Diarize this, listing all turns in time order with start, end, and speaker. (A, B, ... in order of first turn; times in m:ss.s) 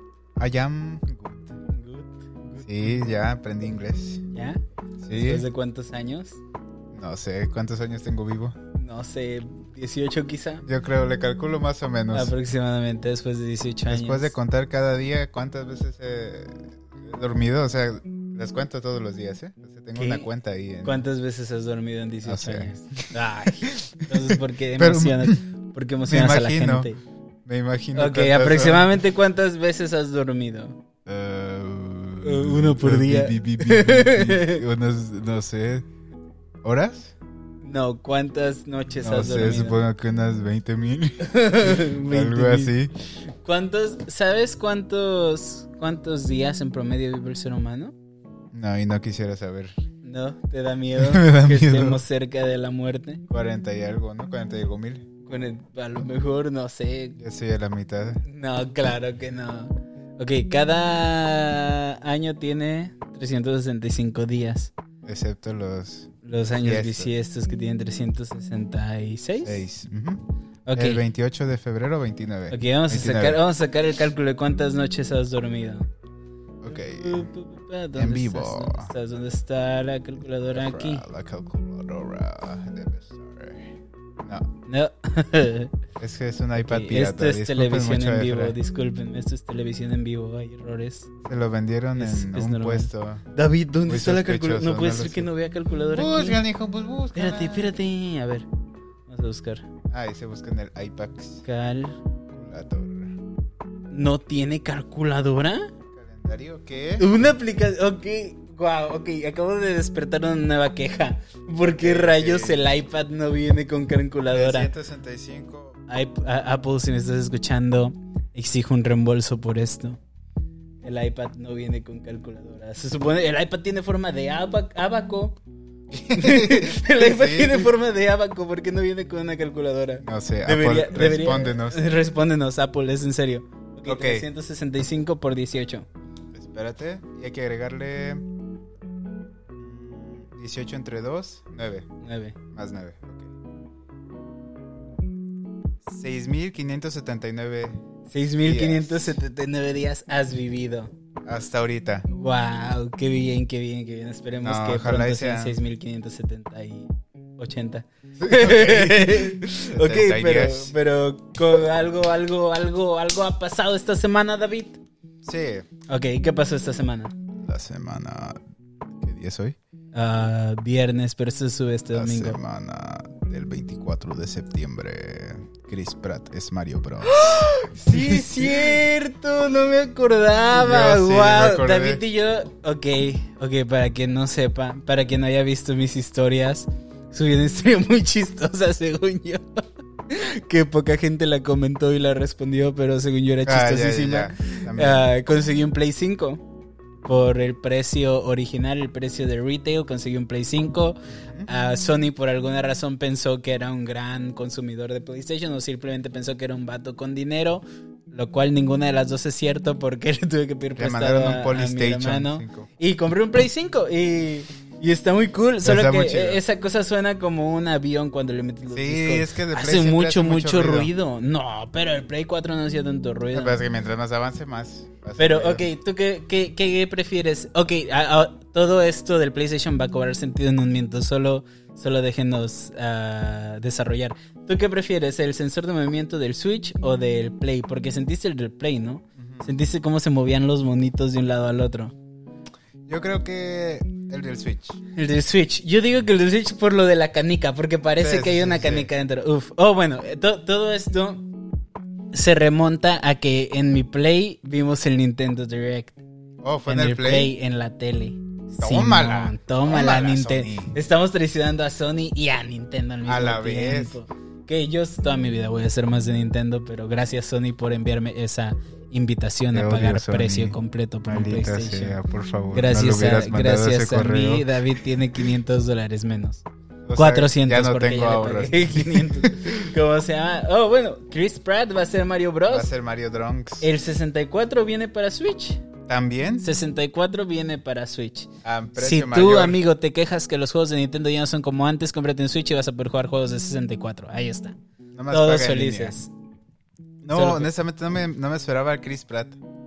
0:00.4-0:01.6 A
0:01.7-0:03.1 B
0:02.6-0:04.2 A
0:04.3-0:04.6 B
0:05.0-0:05.4 A
0:05.1-0:06.4 B
0:06.9-0:08.6 A
0:08.8-0:10.6 B
0:10.6-0:12.3 A
0:12.1-0:14.3 B
0:13.9-0:21.0 A
0:20.0-0:20.3 B
0:20.8-0:27.0 B
0:22.3-0:25.4 A
0:26.0-0:26.9 A
0:27.4-0:28.9 A
0:28.0-0:30.8 B
0:31.0-0:35.9 A
0:32.2-0:34.6 B
0:36.6-0:37.1 A
0:37.6-0:39.8 B
0:39.0-0:42.9 A
0:41.2-0:42.7 B
0:43.4-0:47.9 B
0:48.5-0:49.7 A
0:50.0-0:53.2 B
0:51.0-0:52.0 A
0:53.3-0:55.0 A
0:55.2-0:57.2 B
0:57.2-0:58.2 A
0:58.2-1:04.7 B
1:05.0-1:07.1 A
1:06.2-1:09.7 B
1:09.4-1:13.4 A
1:10.7-1:11.0 B
1:12.5-1:15.9 B
1:16.6-1:17.3 A
1:16.7-1:21.0 B
1:17.9-1:18.9 A
1:20.5-1:23.7 A
1:24.7-1:25.7 B
1:26.0-1:28.6 A
1:26.6-1:31.1 B
1:31.2-1:33.2 A
1:31.9-1:36.4 B
1:33.8-1:35.3 A
1:35.9-1:37.7 A
1:37.2-1:38.5 B
1:39.1-1:39.6 B
1:39.9-1:41.4 A
1:41.4-1:42.0 B
1:42.3-1:43.2 A
1:43.9-1:45.7 B
1:45.9-1:47.1 A
1:47.0-1:54.7 B
1:51.6-1:52.6 A
1:54.3-1:55.8 A
1:55.9-2:00.0 B
2:00.8-2:05.4 B
2:05.9-2:07.7 A
2:06.1-2:15.9 B
2:10.0-2:11.8 A
2:13.9-2:14.3 A
2:16.3-2:18.2 A
2:19.6-2:21.9 A
2:22.0-2:22.4 B
2:22.5-2:23.3 A
2:25.9-2:27.8 A
2:28.1-2:30.9 B
2:28.4-2:29.2 A
2:31.2-2:32.1 A
2:32.1-2:44.8 B
2:34.4-2:35.6 A
2:38.2-2:40.7 A
2:45.2-2:45.7 A
2:45.9-2:47.2 B
2:47.4-2:48.4 A
2:49.0-2:49.6 A
2:49.9-2:52.4 B
2:51.9-2:58.8 A
2:57.0-3:16.4 B
3:00.5-3:02.0 A
3:13.4-3:15.1 A
3:17.0-3:43.6 B
3:30.8-3:32.7 A
3:35.6-3:36.4 A
3:38.7-3:40.9 A
3:43.3-3:45.7 A
3:45.2-4:01.9 B
3:59.2-3:59.5 A
4:02.8-4:04.8 A
4:05.0-4:11.3 B
4:08.0-4:08.9 A
4:12.1-4:16.0 B
4:16.4-4:17.3 A
4:16.6-4:32.0 B
4:18.6-4:20.8 A
4:23.1-4:24.0 A
4:29.5-4:30.6 A
4:31.1-4:34.6 A
4:32.5-4:36.4 B
4:36.8-4:39.7 A
4:37.0-4:42.7 B
4:42.5-4:43.7 A
4:43.6-4:45.6 B
4:45.9-4:46.4 A
4:46.4-4:54.6 B
4:48.4-4:49.6 A
4:54.9-4:55.9 A
4:55.1-4:56.1 B
4:57.0-4:59.4 A
4:57.1-4:57.5 B